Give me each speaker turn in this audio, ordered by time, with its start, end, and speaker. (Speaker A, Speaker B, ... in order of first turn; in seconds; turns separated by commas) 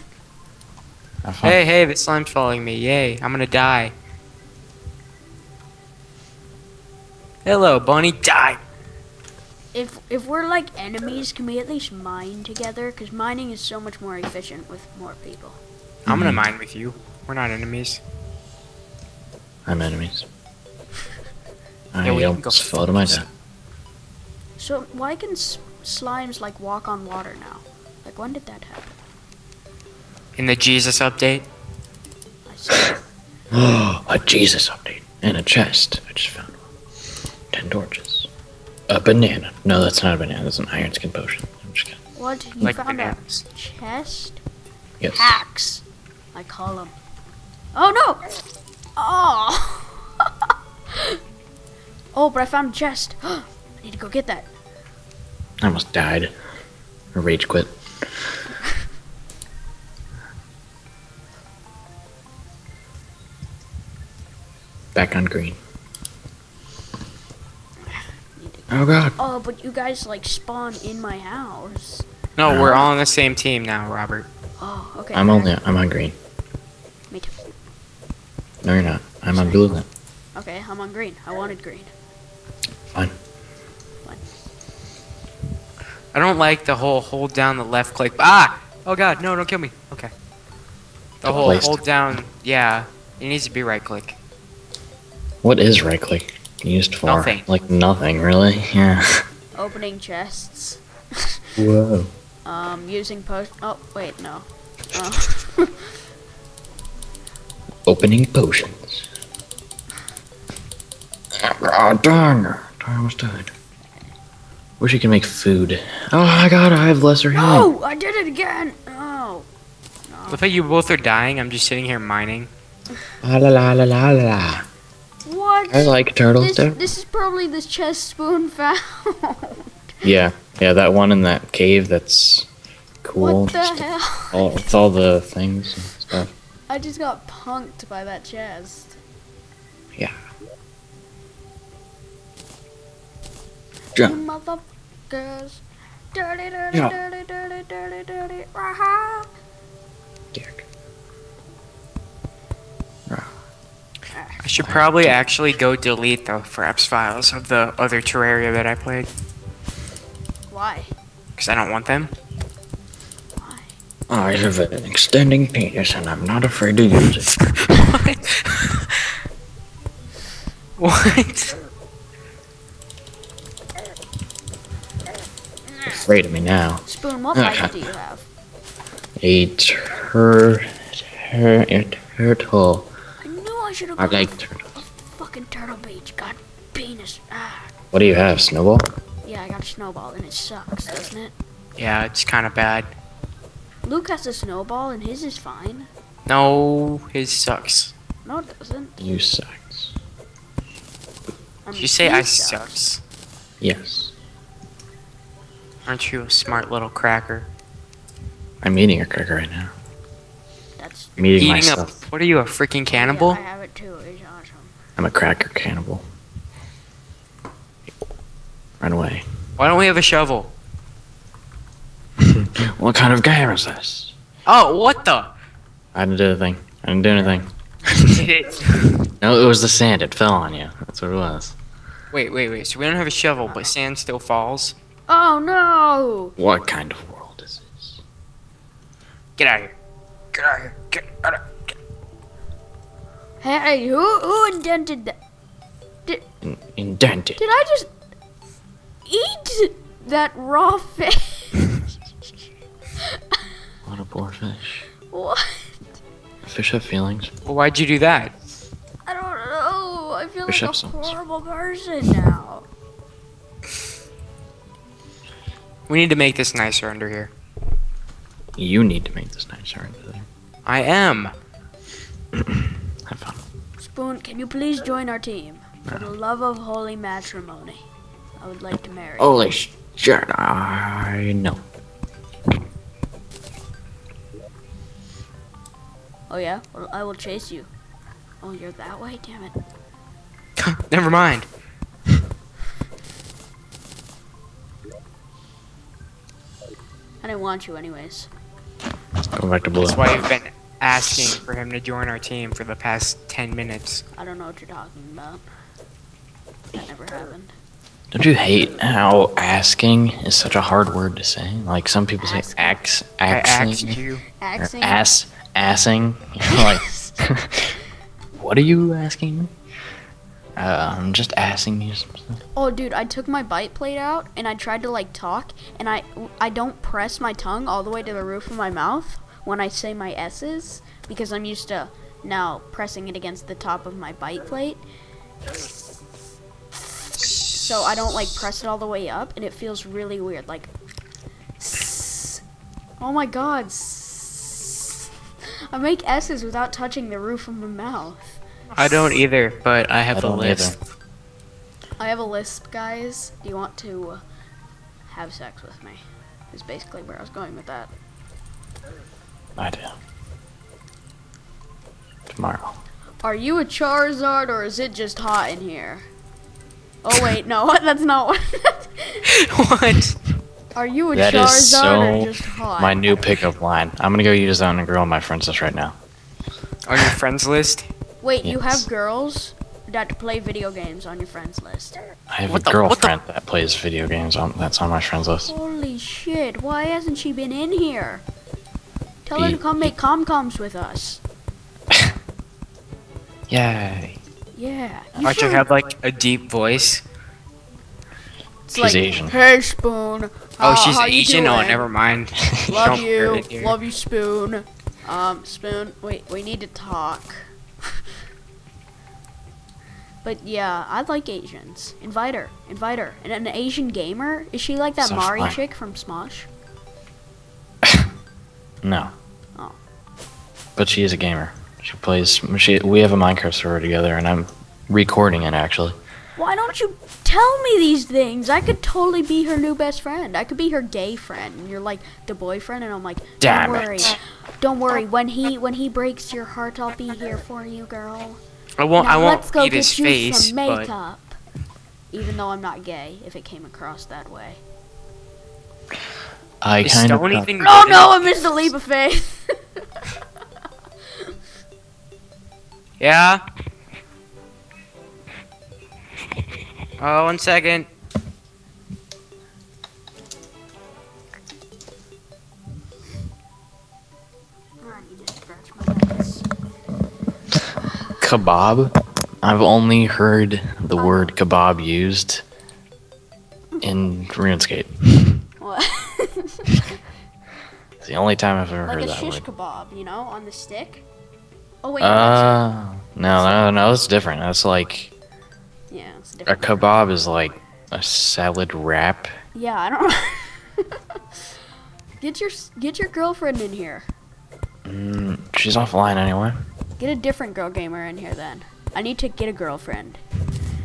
Speaker A: 1.2-1.6, Speaker B: 1.4-3.9, Speaker B: 7.4-8.6, Speaker C: 9.7-15.6, Speaker A: 16.1-16.4, Speaker B: 16.1-18.0, Speaker A: 19.7-20.3, Speaker A: 21.9-23.2, Speaker B: 22.0-23.2, Speaker C: 24.6-28.9, Speaker B: 30.4-31.4, Speaker C: 32.5-33.0, Speaker A: 33.5-36.6, Speaker A: 37.5-38.3, Speaker A: 38.9-42.0, Speaker C: 42.1-44.4, Speaker B: 42.6-43.4, Speaker A: 45.0-45.4, Speaker C: 45.1-45.8, Speaker C: 46.3-46.9, Speaker C: 47.7-48.4, Speaker C: 49.0-50.3, Speaker C: 50.9-51.2, Speaker C: 52.1-54.5, Speaker A: 55.6-56.3, Speaker A: 57.1-57.7, Speaker A: 64.9-65.6, Speaker C: 67.9-72.1, Speaker A: 68.7-69.2, Speaker B: 72.3-74.3, Speaker A: 72.5-72.8, Speaker C: 72.6-72.9, Speaker C: 74.6-75.5, Speaker A: 75.1-76.1, Speaker C: 77.1-77.4, Speaker A: 78.6-79.8, Speaker C: 79.3-79.7, Speaker C: 80.3-81.9, Speaker B: 86.1-90.1, Speaker A: 91.2-91.8, Speaker B: 91.2-94.2, Speaker A: 95.4-99.2, Speaker B: 97.0-97.5, Speaker C: 99.5-101.5, Speaker A: 101.6-102.1, Speaker C: 102.4-105.8, Speaker A: 107.9-109.1, Speaker A: 111.3-113.5, Speaker A: 114.8-117.7, Speaker C: 117.3-119.5, Speaker C: 120.0-120.5, Speaker B: 120.3-122.5, Speaker A: 123.2-124.6, Speaker C: 125.2-130.1, Speaker A: 125.7-126.8, Speaker A: 130.0-132.5, Speaker A: 133.0-136.3, Speaker C: 133.2-134.5, Speaker C: 136.7-138.9, Speaker C: 144.0-149.3, Speaker A: 150.3-150.6, Speaker C: 154.1-154.4, Speaker B: 154.4-159.1, Speaker A: 154.6-155.2, Speaker C: 160.5-160.9, Speaker B: 161.3-162.1, Speaker C: 163.3-163.7, Speaker A: 164.1-167.3, Speaker B: 167.3-169.1, Speaker B: 170.8-171.5, Speaker A: 176.0-177.8, Speaker C: 176.8-178.3, Speaker A: 179.2-182.9, Speaker C: 183.2-184.3, Speaker A: 184.0-184.8, Speaker C: 184.9-187.7, Speaker A: 187.9-188.8, Speaker C: 189.2-191.3, Speaker B: 191.8-192.9, Speaker C: 193.8-195.9, Speaker B: 196.3-197.9, Speaker C: 198.2-199.0, Speaker A: 199.0-199.9, Speaker C: 201.7-202.8, Speaker B: 201.7-203.0, Speaker A: 203.6-204.1, Speaker B: 205.8-207.5, Speaker A: 208.6-209.7, Speaker C: 210.8-211.3, Speaker A: 211.2-211.9, Speaker B: 211.4-213.4, Speaker C: 212.9-214.7, Speaker A: 215.0-216.0, Speaker A: 218.8-219.2, Speaker B: 219.6-220.5, Speaker A: 222.2-224.1, Speaker B: 224.4-225.3, Speaker A: 225.9-228.2, Speaker B: 228.1-229.0, Speaker A: 229.2-231.6, Speaker B: 232.1-234.8, Speaker C: 235.1-236.3, Speaker A: 236.4-238.0, Speaker B: 239.4-239.7, Speaker B: 240.3-241.4, Speaker C: 243.4-245.2, Speaker A: 246.4-247.4, Speaker C: 247.4-247.9, Speaker C: 249.0-251.8, Speaker A: 253.8-254.9, Speaker C: 255.1-255.8, Speaker A: 256.4-257.3, Speaker B: 257.4-258.3, Speaker C: 259.1-262.7, Speaker A: 260.5-261.1, Speaker B: 265.9-267.3, Speaker A: 268.6-270.2, Speaker B: 270.6-271.3, Speaker A: 272.3-273.4, Speaker C: 273.8-277.8, Speaker C: 278.4-279.4, Speaker A: 279.2-281.6, Speaker C: 286.3-287.7, Speaker C: 288.4-289.5, Speaker B: 290.6-291.5, Speaker C: 297.2-298.3, Speaker A: 299.3-300.3, Speaker B: 299.8-304.0, Speaker C: 304.1-305.4, Speaker C: 306.7-307.5, Speaker A: 308.1-314.0, Speaker C: 312.2-312.8, Speaker B: 313.3-314.2, Speaker C: 313.9-315.1, Speaker A: 314.6-317.8, Speaker C: 316.5-317.2, Speaker A: 318.4-319.5, Speaker A: 320.6-322.4, Speaker C: 322.5-334.8, Speaker C: 337.3-340.7, Speaker C: 341.6-342.4, Speaker C: 343.0-345.1, Speaker C: 345.7-348.4, Speaker B: 348.7-350.8, Speaker A: 350.1-350.8, Speaker C: 352.0-354.2, Speaker C: 355.1-357.9, Speaker A: 359.6-360.0, Speaker A: 362.3-362.8, Speaker C: 363.2-366.1, Speaker C: 367.0-369.2, Speaker B: 369.2-370.2, Speaker C: 370.7-373.4, Speaker A: 371.1-375.9, Speaker B: 376.9-377.9, Speaker C: 378.2-382.0, Speaker A: 378.4-378.9, Speaker A: 382.3-385.5, Speaker B: 382.5-383.1, Speaker C: 385.4-388.2, Speaker C: 389.2-391.2, Speaker A: 389.3-389.9, Speaker A: 393.5-394.2, Speaker C: 394.5-395.6, Speaker B: 395.2-397.0, Speaker C: 398.7-401.9, Speaker A: 398.7-399.3, Speaker B: 400.6-403.8, Speaker C: 402.6-407.4, Speaker A: 402.6-403.0, Speaker C: 410.2-416.5, Speaker A: 415.0-415.6, Speaker A: 418.8-419.1, Speaker A: 420.8-426.0, Speaker C: 426.4-438.4, Speaker A: 433.4-434.1, Speaker B: 438.8-440.9, Speaker C: 439.0-441.4, Speaker C: 442.1-444.6, Speaker A: 446.6-447.5, Speaker B: 446.8-448.7, Speaker C: 447.6-449.8, Speaker B: 453.0-453.4, Speaker B: 457.0-457.9, Speaker C: 464.8-466.5, Speaker A: 468.2-472.4, Speaker C: 470.9-471.3, Speaker A: 473.8-475.4, Speaker C: 475.6-476.8, Speaker A: 478.0-479.4, Speaker C: 478.8-481.0, Speaker C: 481.8-482.7, Speaker A: 482.0-485.1, Speaker C: 483.2-483.7, Speaker C: 485.9-486.9, Speaker A: 486.4-489.3, Speaker C: 489.5-491.0, Speaker C: 492.2-494.1, Speaker A: 494.9-496.6, Speaker C: 497.0-500.2